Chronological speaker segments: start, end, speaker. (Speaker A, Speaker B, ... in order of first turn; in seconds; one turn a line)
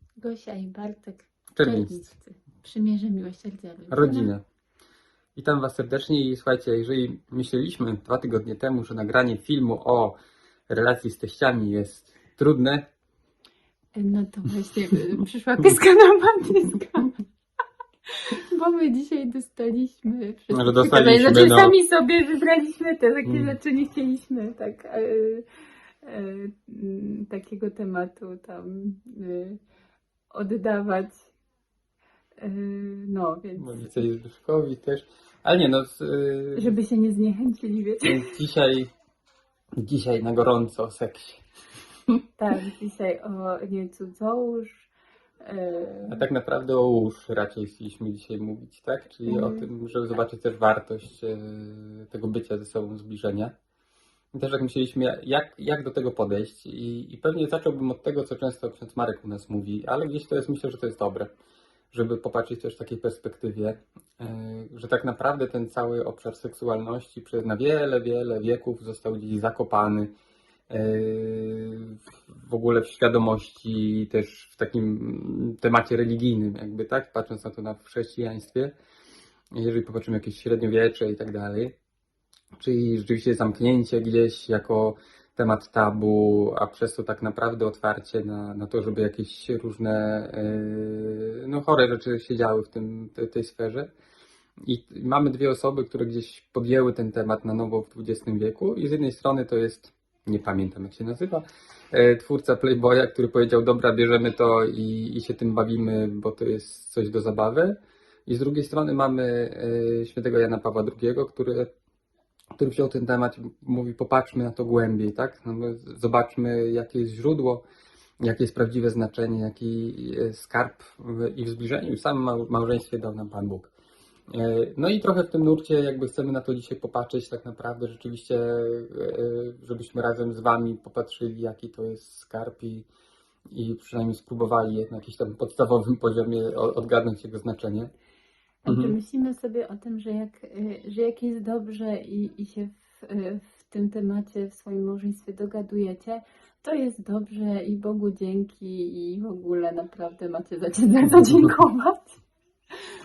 Speaker A: 0.2-4.3
Speaker B: 1.5-2.0
Speaker B: 3.9-4.4
Speaker B: 5.3-10.2
Speaker B: 10.7-12.9
Speaker A: 13.9-17.1
Speaker A: 18.3-25.4
Speaker B: 20.5-21.8
Speaker B: 23.2-23.6
Speaker A: 26.0-29.6
Speaker A: 30.3-31.2
Speaker A: 32.4-34.0
Speaker B: 33.6-36.7
Speaker A: 36.5-38.2
Speaker B: 38.0-38.9
Speaker B: 39.8-41.4
Speaker A: 42.4-44.9
Speaker A: 45.4-46.2
Speaker B: 46.1-53.5
Speaker A: 49.2-49.7
Speaker B: 54.3-61.3
Speaker B: 61.9-70.1
Speaker B: 70.7-78.7
Speaker B: 79.5-81.7
Speaker B: 82.6-93.9
Speaker B: 94.6-111.7
Speaker B: 112.6-117.6
Speaker B: 118.2-123.7
Speaker B: 124.3-132.9
Speaker B: 133.5-137.9
Speaker A: 138.6-152.2
Speaker B: 138.7-138.9